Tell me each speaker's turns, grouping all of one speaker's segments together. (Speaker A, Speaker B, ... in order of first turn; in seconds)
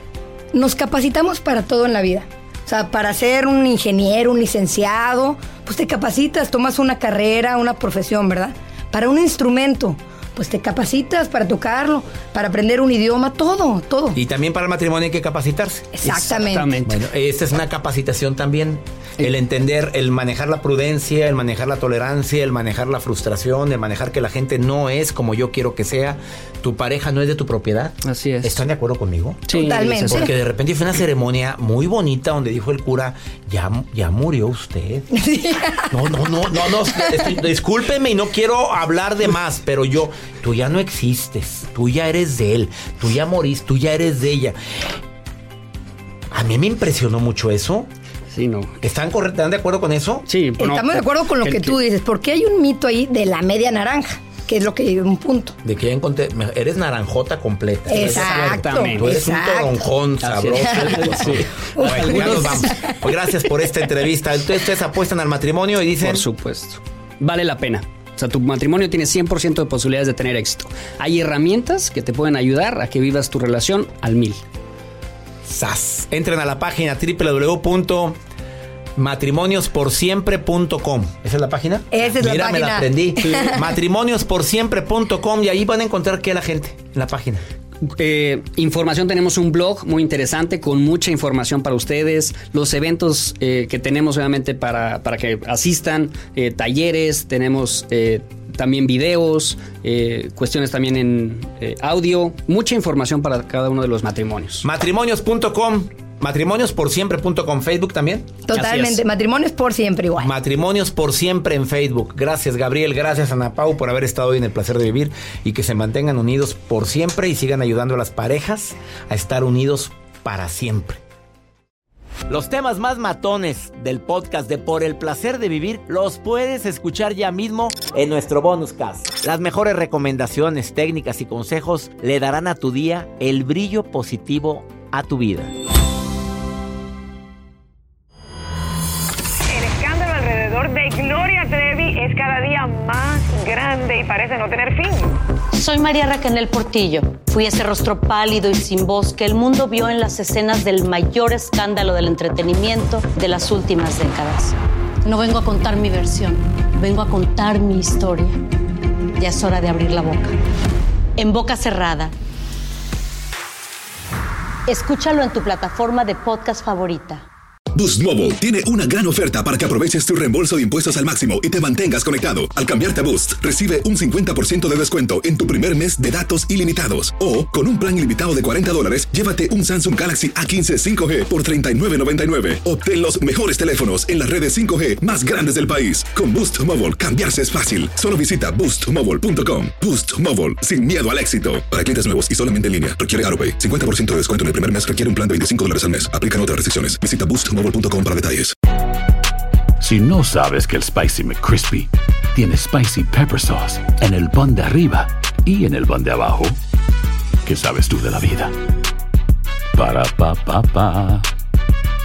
Speaker A: 0.5-14.2, 16.0-16.7, 29.5-30.3, 35.1-36.1, 37.0-37.3, 50.6-55.6, 57.9-59.8, 60.6-61.0, 61.8-62.5, 81.9-83.6, 108.5-110.3
Speaker B: 14.1-15.9, 16.8-29.5, 30.1-35.1, 35.9-44.6, 46.3-47.9, 48.8-50.3, 55.6-66.2, 75.4-78.2, 79.0-87.4, 104.6-108.7, 110.2-121.0, 122.3-135.5
Speaker C: 16.0-16.9, 28.0-28.6, 29.5-30.3, 48.3-48.8, 50.3-51.8, 57.9-59.2, 60.2-63.0, 66.0-74.4, 88.0-104.7, 108.5-109.0
Speaker D: 139.5-145.2
Speaker E: 145.5-158.4, 159.2-160.3, 161.2-162.1, 164.7-167.2
Speaker F: 167.7-198.5
Speaker G: 199.8-206.6, 207.4-208.5, 209.7-211.2